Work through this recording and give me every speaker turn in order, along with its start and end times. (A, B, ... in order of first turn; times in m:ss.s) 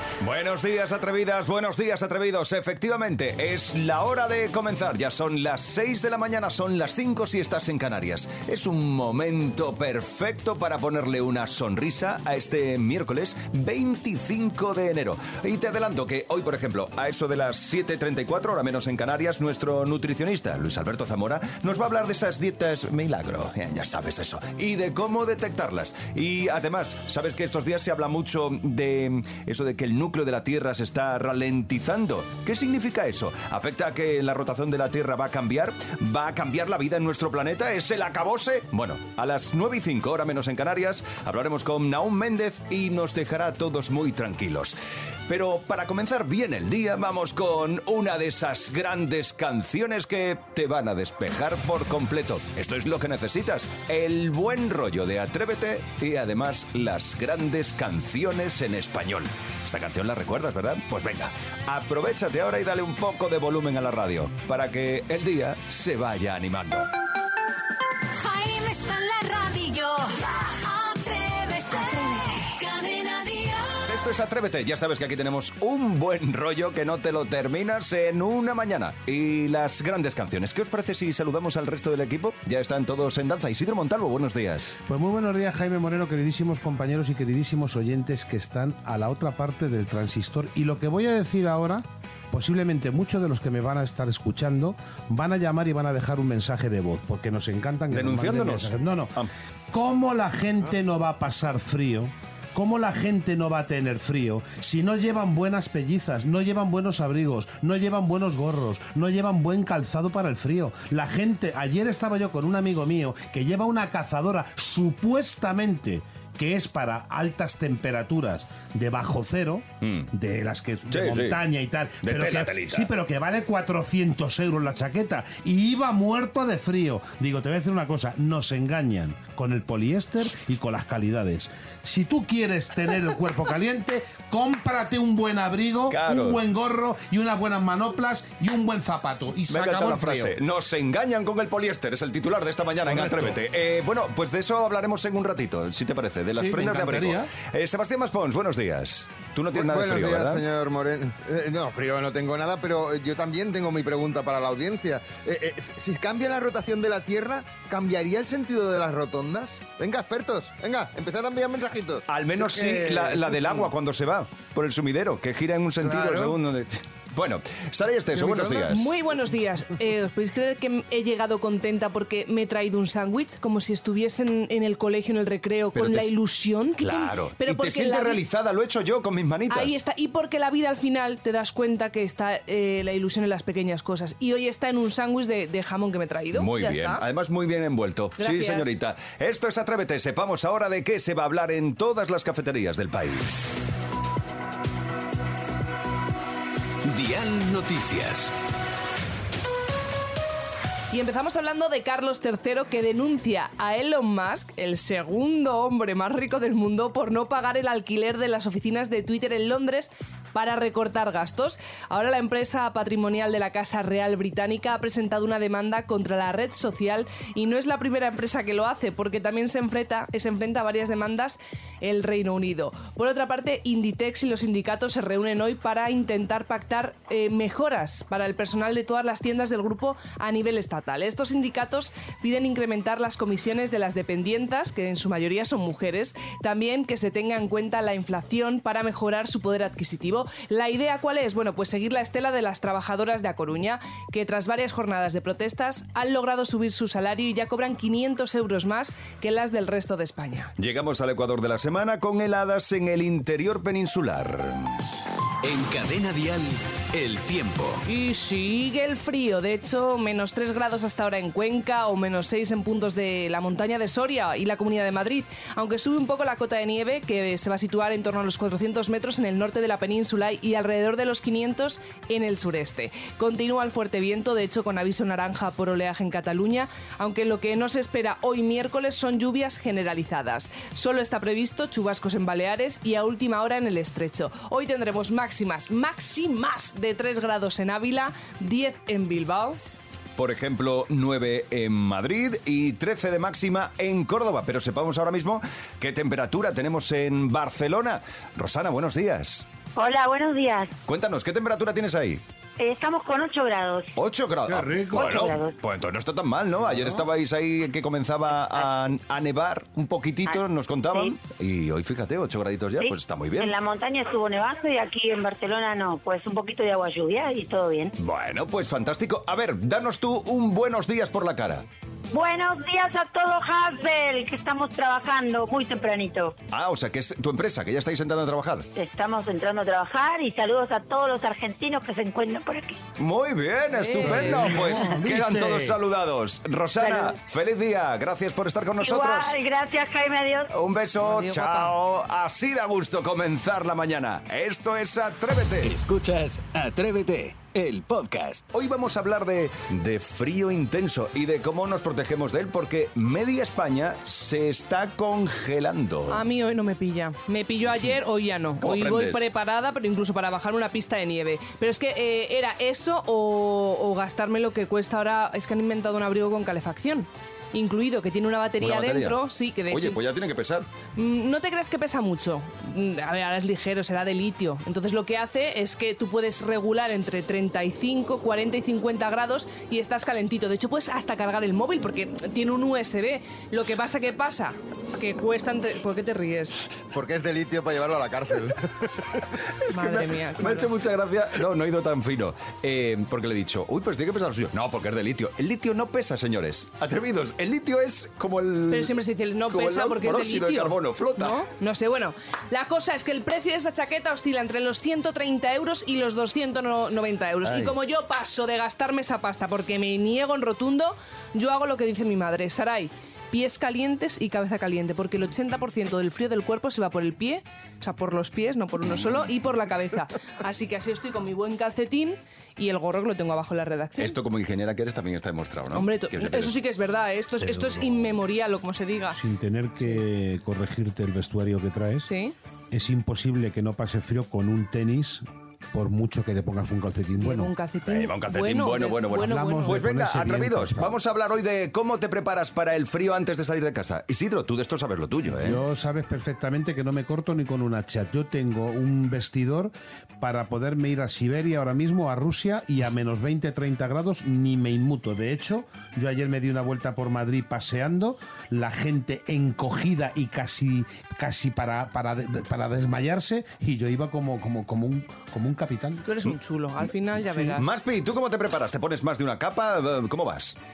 0:00.2-0:44.8 A
0:45.3-1:06.9 A
1:08.2-1:13.9 B
1:13.8-1:24.8 A
1:24.9-1:39.2 C
1:37.9-1:39.3 A
1:39.7-2:20.3 C
1:59.8-2:00.1 A
2:00.9-2:01.4 A
2:02.0-2:02.9 A
2:15.9-2:16.4 A
2:19.5-2:30.4 A
2:22.9-2:23.4 C
2:26.3-2:27.3 C
2:29.5-2:43.7 D
2:42.1-2:48.9 A
2:45.8-2:46.4 D
2:48.5-2:58.2 E
2:55.7-2:56.1 A
2:56.8-2:59.8 A
2:59.5-3:07.0 E
3:06.3-3:13.6 A
3:08.2-3:08.8 E
3:16.8-3:18.3 F
3:20.9-4:10.5 E
4:10.6-4:14.7 A
4:15.4-4:17.8 F
4:17.9-4:49.6 E
4:50.2-4:59.5 A
4:59.8-5:00.7 G
5:00.9-5:02.2 A
5:02.6-5:03.9 G
5:04.0-5:13.6 A
5:04.5-5:05.2 C
5:04.9-5:05.6 G
5:12.8-5:17.9 G
5:18.0-5:21.6 A
5:22.1-5:26.4 G
5:26.5-5:28.7 A
5:28.8-5:32.8 G
5:33.0-5:39.4 A
5:33.7-5:34.7 E
5:34.0-5:35.8 C
5:36.8-5:37.2 G
5:38.8-5:40.5 G
5:40.5-5:45.7 A
5:41.0-5:41.7 E
5:45.6-5:48.5 F
5:48.5-5:56.3 A
5:56.1-6:10.0 E
5:58.6-5:59.3 A
6:08.6-6:10.7 A
6:11.0-6:26.8 E
6:26.9-6:29.0 D
6:29.7-6:30.7 E
6:29.7-6:39.0 A
6:38.7-7:04.2 E
6:39.5-6:41.5 A
6:47.4-6:47.8 A
7:04.0-7:06.6 A
7:05.7-7:09.2 E
7:07.4-7:08.1 C
7:09.1-7:12.1 C
7:12.0-7:12.4 E
7:12.7-7:17.5 C
7:17.2-7:19.9 E
7:17.9-7:25.6 A
7:19.1-7:21.0 C
7:25.3-7:46.1 C
7:46.0-7:47.8 E
7:47.3-7:50.6 A